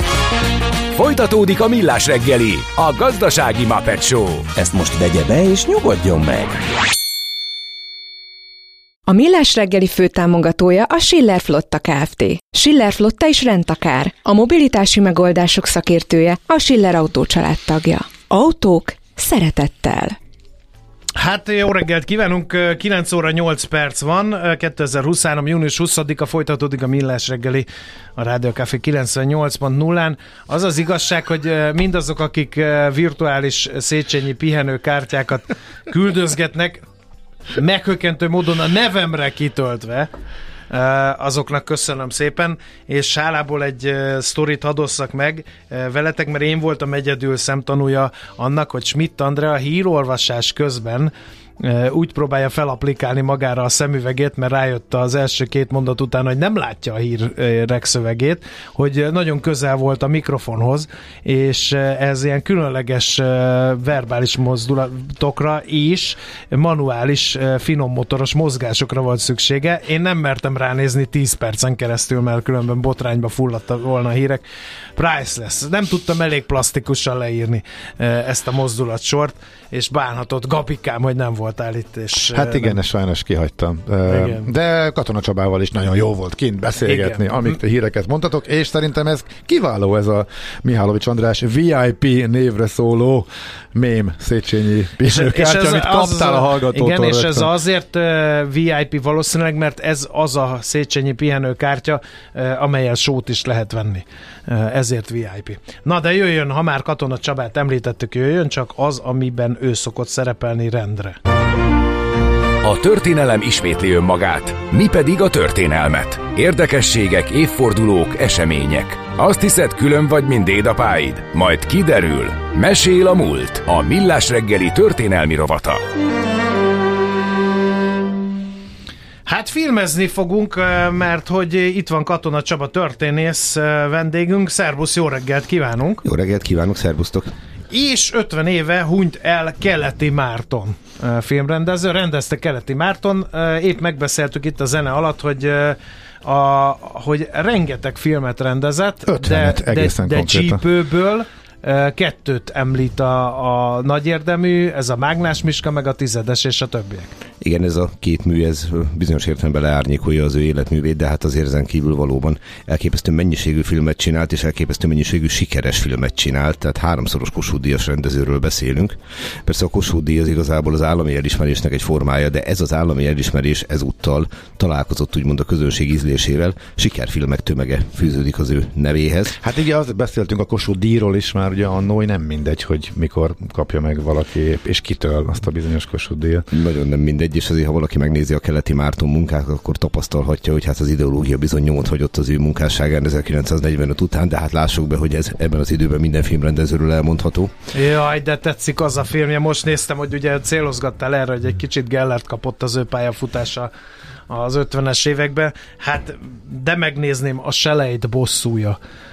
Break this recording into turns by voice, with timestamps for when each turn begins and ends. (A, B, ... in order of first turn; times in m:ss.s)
0:00.9-0:04.5 A
0:04.6-0:06.7 B
0:09.1-0:20.2 C
0:21.2-0:36.8 D
0:37.6-0:40.1 D
0:40.7-1:14.4 D
1:15.0-1:22.8 D
1:22.3-1:37.5 E
1:24.1-1:24.5 D
1:26.9-1:27.2 D
1:35.1-1:51.2 D
1:52.6-2:05.8 A
2:09.3-2:16.0 D
2:16.0-2:17.3 F
2:17.7-2:37.1 D
2:29.1-2:30.6 E
2:37.4-2:59.4 F
2:59.4-3:06.5 E
3:06.5-3:17.5 F
3:17.7-3:23.7 D
3:24.3-3:28.8 D